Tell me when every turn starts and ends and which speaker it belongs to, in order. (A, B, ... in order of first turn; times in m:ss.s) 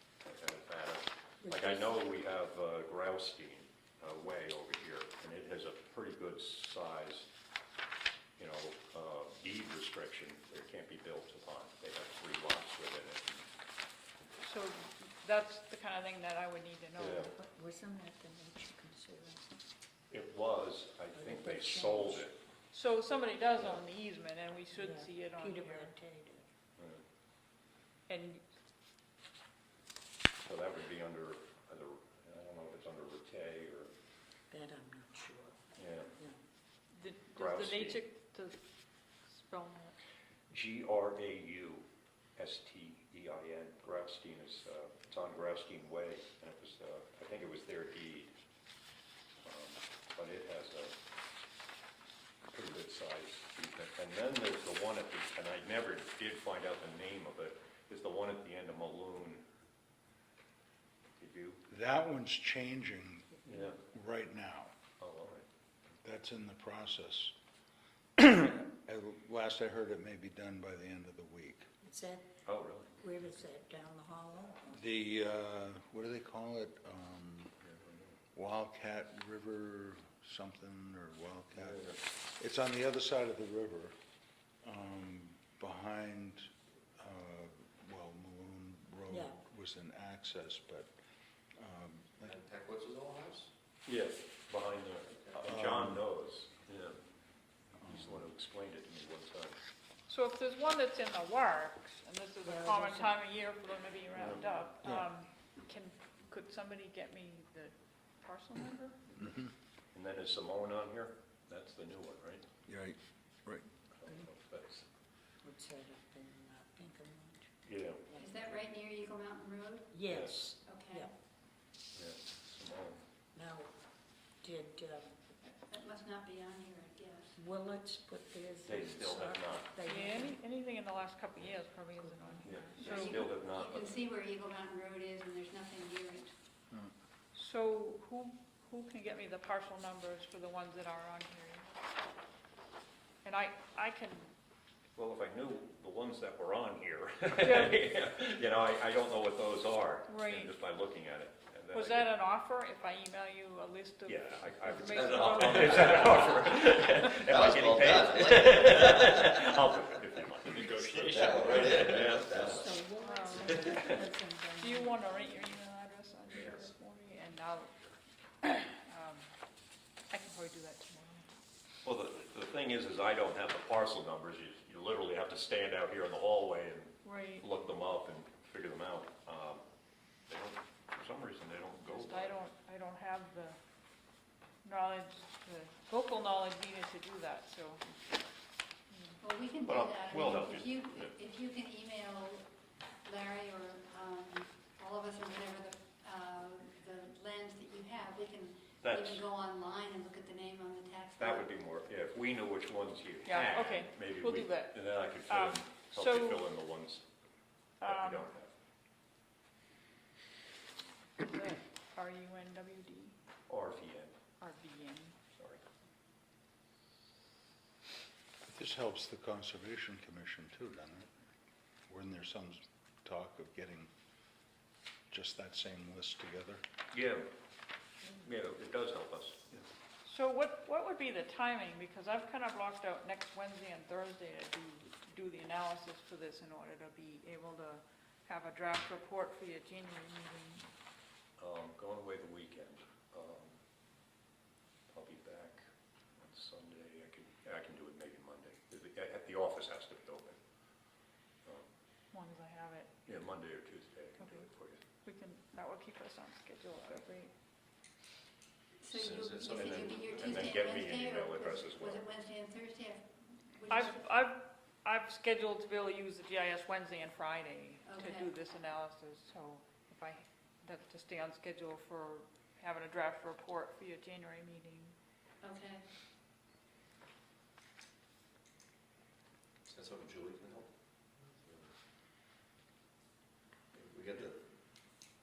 0:00.2-0:07.3 A
0:01.4-0:01.9 B
0:08.4-0:13.5 A
0:14.4-0:17.3 C
0:17.0-0:17.3 A
0:17.2-0:19.6 B
0:20.1-0:22.4 A
0:21.1-0:22.3 B
0:22.7-0:25.9 C
0:23.6-0:23.8 A
0:24.7-0:26.5 B
0:26.8-0:27.0 A
0:28.1-0:28.4 C
0:30.4-0:33.9 A
0:34.5-0:36.4 B
0:35.8-0:36.1 A
0:36.9-0:38.6 C
0:37.4-0:38.0 A
0:39.2-0:40.0 C
0:40.5-0:48.3 A
0:49.4-0:51.0 A
0:52.5-0:59.4 A
1:01.2-1:01.6 A
1:01.7-1:04.7 D
1:03.4-1:03.8 A
1:05.0-1:05.4 A
1:06.0-1:07.3 D
1:08.2-1:11.7 D
1:11.8-1:12.3 B
1:12.4-1:12.9 A
1:13.0-1:14.8 B
1:14.7-1:17.6 D
1:17.6-1:18.2 A
1:18.3-1:24.0 D
1:21.6-1:22.0 A
1:24.6-1:30.9 D
1:29.1-1:29.4 B
1:31.6-1:32.4 D
1:32.2-1:33.5 E
1:33.9-1:37.0 A
1:35.4-1:36.0 D
1:37.8-1:39.6 A
1:37.8-1:38.2 D
1:40.1-1:49.0 C
1:42.4-1:43.2 B
1:44.1-1:44.6 A
1:49.2-1:49.5 D
1:49.9-1:52.4 A
1:52.7-1:53.7 D
1:53.9-1:54.9 A
1:55.4-1:57.5 B
1:57.7-1:58.0 A
1:58.0-1:58.6 B
1:58.2-1:59.9 F
1:59.9-2:01.1 B
2:00.1-2:00.5 A
2:00.6-2:01.1 F
2:02.0-2:03.0 A
2:03.3-2:03.7 B
2:04.4-2:05.3 B
2:05.5-2:07.3 F
2:07.3-2:10.4 B
2:08.7-2:09.7 A
2:09.9-2:13.2 C
2:12.0-2:12.9 B
2:12.4-2:14.0 A
2:12.8-2:16.3 F
2:17.3-2:21.8 C
2:23.2-2:24.3 C
2:25.0-2:32.1 A
2:27.4-2:27.8 C
2:30.1-2:30.5 C
2:31.7-2:36.4 C
2:34.1-2:42.7 A
2:34.9-2:39.5 E
2:40.6-2:42.8 E
2:42.4-2:45.5 B
2:43.0-2:43.8 C
2:44.6-2:47.8 C
2:46.4-2:46.7 A
2:48.4-2:49.3 C
2:50.1-2:51.4 C
2:51.8-2:59.6 A
2:57.0-2:57.5 C
3:00.3-3:02.4 A
3:01.8-3:03.6 C
3:04.6-3:07.8 C
3:08.9-3:09.2 C
3:09.2-3:12.5 F
3:09.6-3:11.1 A
3:13.0-3:21.5 F
3:18.8-3:19.2 A
3:21.2-3:27.0 A
3:23.3-3:26.5 C
3:27.8-3:28.3 C
3:27.8-3:28.5 A
3:31.2-3:33.2 C
3:33.5-3:34.2 A
3:34.4-3:35.2 C
3:35.3-3:35.6 A
3:38.4-3:41.1 D
3:41.9-3:43.9 D
3:45.1-3:46.6 D
3:46.9-3:47.3 A
3:48.1-3:49.7 A
3:50.0-4:00.7 C
4:01.4-4:03.6 A
4:04.9-4:05.6 A
4:06.2-4:10.4 A
4:12.1-4:13.0 C
4:13.1-4:14.8 A
4:14.2-4:14.5 C
4:15.0-4:17.3 C
4:18.8-4:24.0 F
4:18.9-4:20.6 E
4:19.6-4:22.1 A
4:23.7-4:34.9 C
4:27.8-4:28.3 F
4:35.4-4:35.8 F
4:39.6-4:41.7 E
4:43.7-4:44.4 E